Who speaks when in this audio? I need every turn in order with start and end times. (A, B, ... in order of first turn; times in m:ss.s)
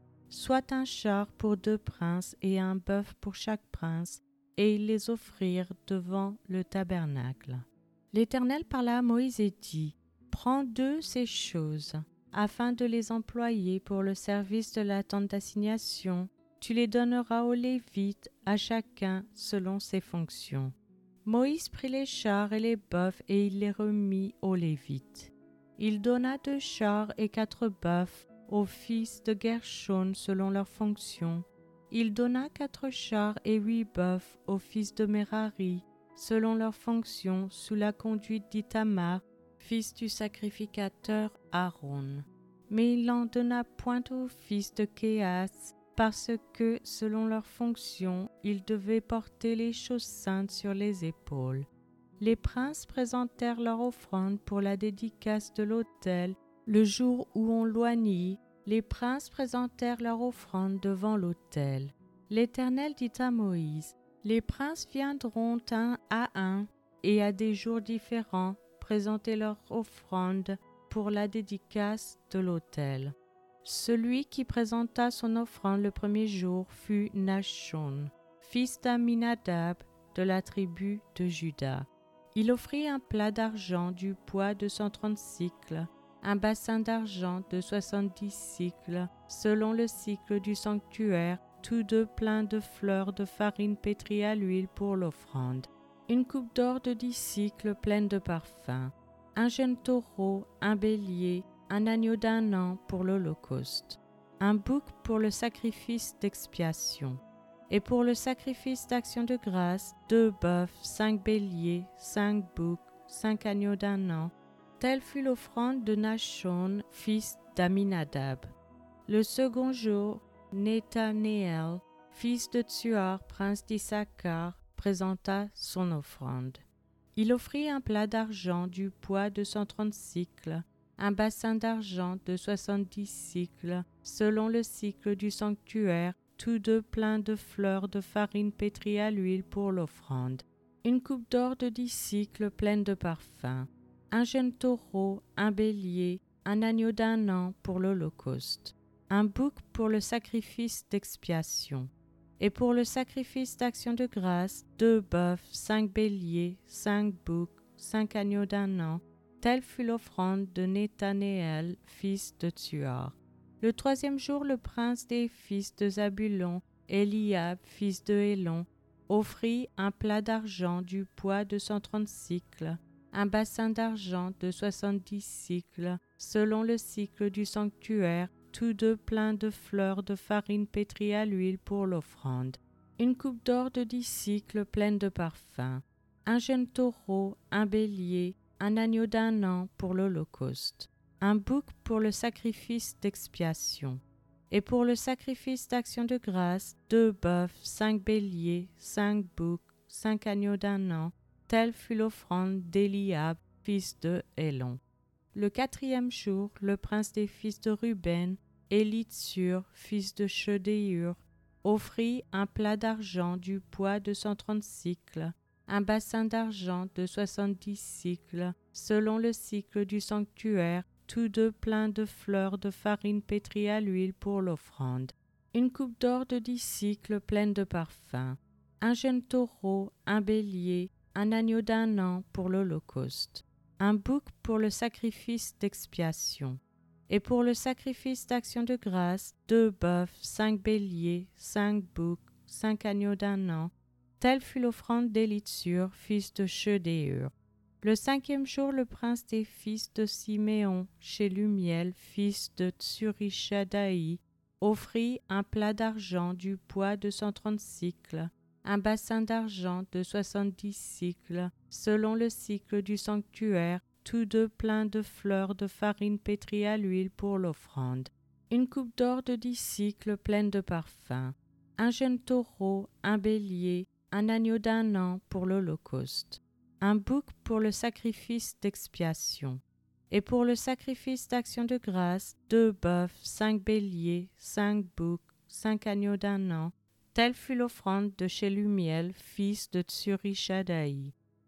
0:00.3-1:58.5 A
1:59.1-2:06.6 A
2:07.2-3:24.8 A
3:25.3-4:51.2 A